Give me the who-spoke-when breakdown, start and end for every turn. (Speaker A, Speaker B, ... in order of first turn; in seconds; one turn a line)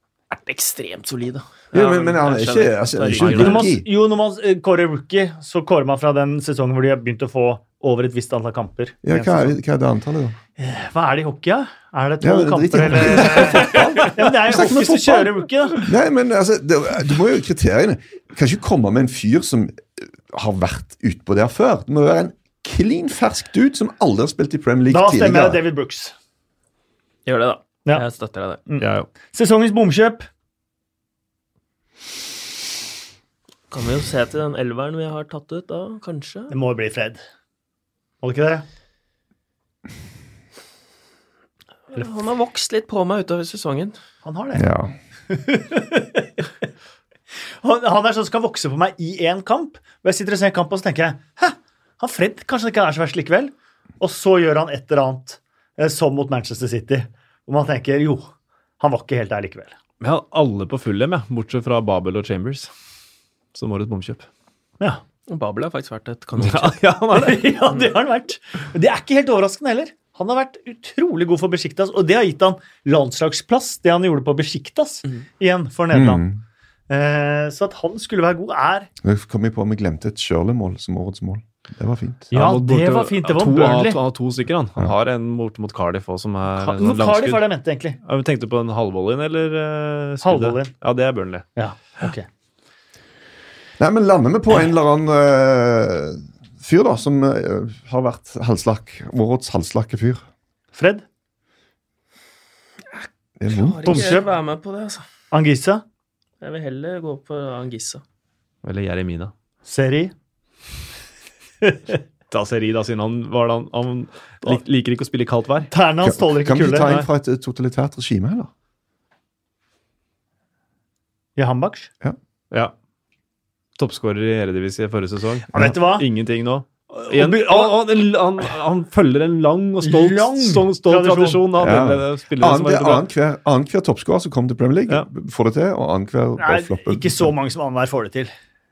Speaker A: 0.3-3.7
Speaker B: 1.7-3.9
Speaker C: 3.2-9.6
Speaker B: 9.0-10.4
Speaker C: 10.6-15.9
Speaker B: 12.2-25.6
Speaker C: 24.9-26.1
Speaker A: 27.3-28.6
Speaker C: 28.7-30.3
Speaker D: 28.8-29.1
Speaker A: 33.7-36.5
Speaker C: 36.5-37.2
Speaker C: 38.2-38.6
Speaker A: 41.9-44.0
Speaker C: 44.2-44.7
Speaker B: 44.5-45.0
Speaker C: 45.3-46.4
Speaker C: 47.6-59.8
Speaker D: 60.0-62.7
Speaker D: 63.5-64.3
Speaker A: 65.3-66.8
Speaker D: 66.4-67.5
Speaker C: 67.1-76.2
Speaker B: 75.9-76.4
Speaker C: 76.9-78.9
Speaker B: 79.0-82.3
Speaker D: 82.3-87.5
Speaker C: 82.3-84.0
Speaker C: 86.6-88.0
Speaker D: 88.0-91.5
Speaker C: 90.2-90.7
Speaker C: 91.6-92.3
Speaker B: 93.8-100.2
Speaker C: 100.8-101.0
Speaker A: 103.0-105.0
Speaker B: 103.4-104.2
Speaker C: 103.8-104.2
Speaker C: 105.3-105.8
Speaker A: 106.4-108.0
Speaker D: 108.6-109.3
Speaker C: 109.7-110.1
Speaker C: 111.6-112.0
Speaker D: 112.3-115.7
Speaker C: 115.7-117.0
Speaker B: 116.0-118.5
Speaker C: 121.4-121.9
Speaker D: 123.8-133.1
Speaker C: 125.5-126.1
Speaker C: 126.9-127.8
Speaker C: 129.8-131.5
Speaker B: 131.6-137.3
Speaker C: 136.4-138.3